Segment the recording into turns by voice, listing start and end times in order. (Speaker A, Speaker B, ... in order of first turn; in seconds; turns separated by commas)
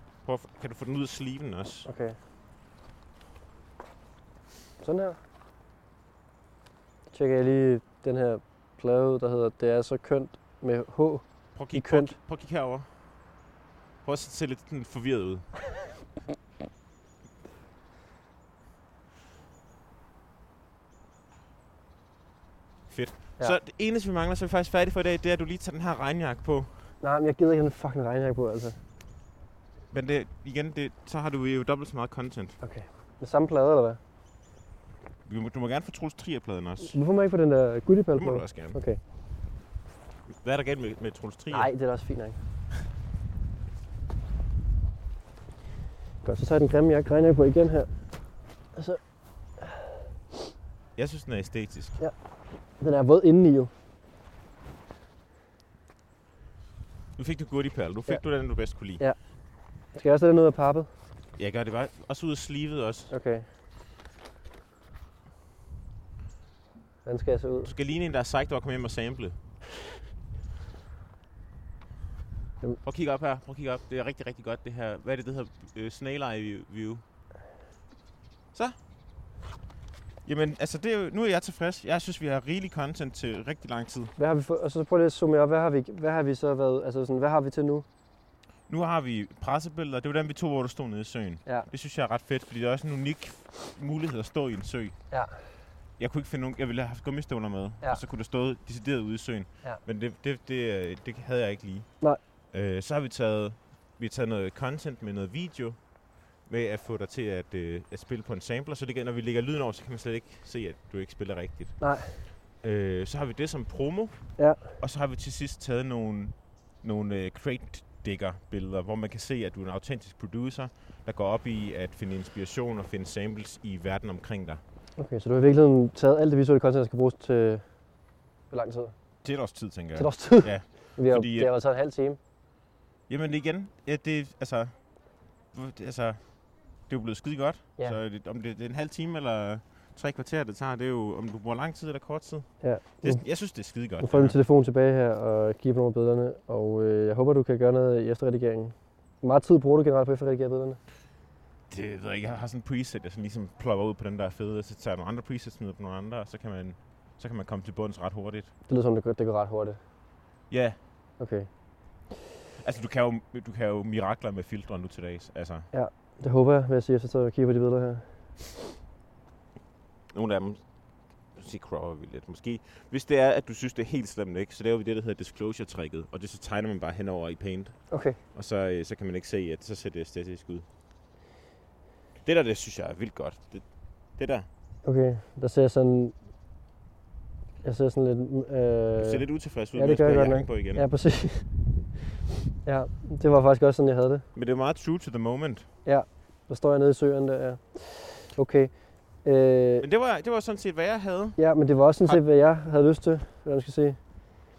Speaker A: 0.2-1.9, Speaker B: 1.9-2.1, Speaker B: 4.8-5.2, Speaker B: 7.1-12.2, Speaker A: 11.5-12.9, Speaker A: 14.0-15.5, Speaker A: 22.9-26.9, Speaker B: 27.0-28.8, Speaker A: 29.9-32.6, Speaker B: 32.6-34.0, Speaker A: 35.2-36.9, Speaker B: 36.9-39.0, Speaker A: 38.1-38.8, Speaker A: 40.3-41.7, Speaker B: 41.5-42.4, Speaker B: 46.2-47.9, Speaker B: 49.6-49.8, Speaker A: 51.0-52.0, Speaker B: 52.8-53.7, Speaker A: 57.2-59.0, Speaker B: 59.9-60.9, Speaker A: 61.4-63.1, Speaker B: 63.1-63.5, Speaker B: 67.0-67.7, Speaker A: 67.6-69.4, Speaker A: 72.8-77.0, Speaker A: 80.2-84.1, Speaker B: 84.2-87.8, Speaker A: 88.7-94.9, Speaker A: 96.0-101.9, Speaker A: 102.5-105.8, Speaker A: 106.5-111.8, Speaker B: 111.8-112.2, Speaker A: 112.6-124.6, Speaker B: 114.4-114.6, Speaker B: 125.0-127.6, Speaker B: 128.5-128.9, Speaker A: 129.2-131.5, Speaker B: 129.9-132.2, Speaker A: 133.1-134.7, Speaker A: 135.5-136.3, Speaker A: 136.8-144.3, Speaker B: 142.6-143.2, Speaker B: 144.0-150.8, Speaker A: 151.7-158.5, Speaker B: 158.7-159.8, Speaker A: 160.5-160.8, Speaker B: 161.2-161.5, Speaker A: 162.6-165.7, Speaker B: 165.7-168.0, Speaker A: 170.1-170.6, Speaker A: 171.3-180.7, Speaker B: 177.9-178.2, Speaker A: 182.2-183.6, Speaker A: 184.2-184.5, Speaker B: 184.8-186.1, Speaker B: 187.6-189.2, Speaker A: 189.0-190.8, Speaker B: 189.7-191.5, Speaker B: 192.6-194.2, Speaker A: 194.3-195.7, Speaker B: 195.8-198.7, Speaker B: 199.2-199.8, Speaker A: 199.8-201.4, Speaker B: 201.4-204.0